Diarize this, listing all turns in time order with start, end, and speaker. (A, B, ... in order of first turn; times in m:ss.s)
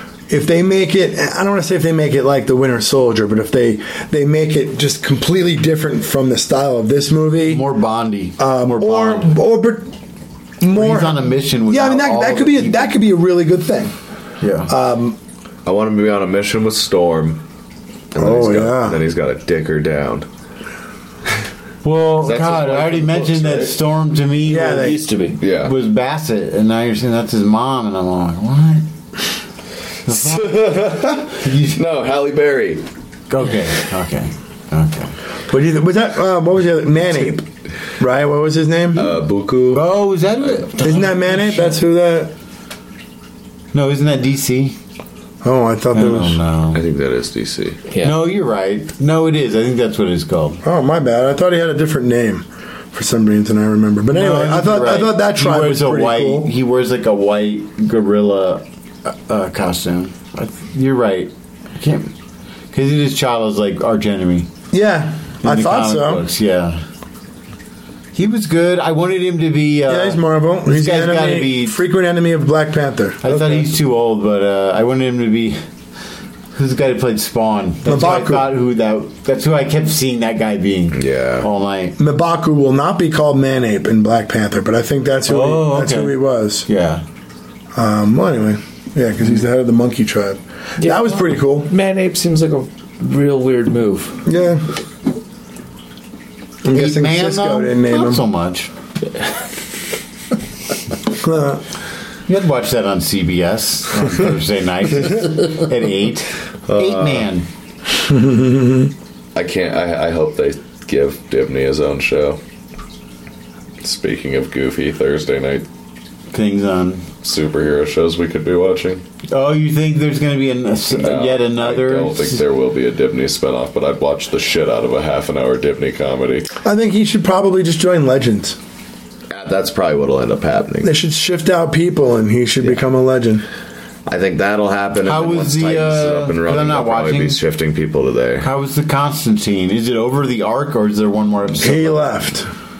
0:00.3-0:07.6 A
0:07.5-0:09.3 B
0:08.4-0:09.9 A
0:10.6-0:13.9 A
0:10.7-0:12.9 B
0:14.4-0:14.7 B
0:14.7-0:15.2 A
0:15.6-0:17.4 C
0:18.1-0:20.3 C
0:18.2-0:19.0 A
0:21.8-0:25.0 B
0:22.2-0:23.7 C
0:24.4-0:25.0 A
0:24.6-0:25.4 D
0:25.4-0:25.7 C
0:25.5-0:28.8 B
0:30.0-0:31.8 B
0:30.1-0:32.8 C
0:33.3-0:35.2 B
0:35.5-0:37.5 A
0:38.0-0:39.2 A
0:38.9-0:39.8 C
0:39.7-0:41.8 B
0:40.8-0:42.3 A
0:43.7-0:44.8 B
0:45.4-0:46.4 A
0:45.9-0:46.8 B
0:46.7-0:47.8 C
0:47.9-0:48.2 D
0:48.0-0:50.6 B
0:50.6-0:56.5 A
0:54.1-1:02.1 B
1:02.7-1:04.5 B
1:04.7-1:06.2 A
1:05.4-1:06.8 B
1:08.1-1:11.8 B
1:09.9-1:13.7 A
1:13.2-1:15.6 B
1:16.5-1:22.0 B
1:17.8-1:18.5 A
1:20.9-1:21.5 C
1:22.0-1:26.7 A
1:25.3-1:27.0 B
1:27.7-1:31.7 A
1:30.8-1:34.2 D
1:34.2-1:34.6 A
1:36.6-1:38.2 A
1:36.7-1:38.7 B
1:41.1-1:41.6 A
1:42.3-1:47.4 B
1:46.7-1:47.3 C
1:48.0-1:48.9 A
1:49.3-1:52.4 C
1:53.8-1:55.6 C
1:56.3-1:57.0 B
1:57.2-1:59.0 C
1:59.3-2:02.4 B
2:00.9-2:06.5 C
2:06.6-2:08.6 A
2:09.3-2:10.9 C
2:10.8-2:13.4 A
2:14.0-2:18.5 C
2:15.0-2:17.4 B
2:18.4-2:22.2 B
2:21.6-2:22.5 A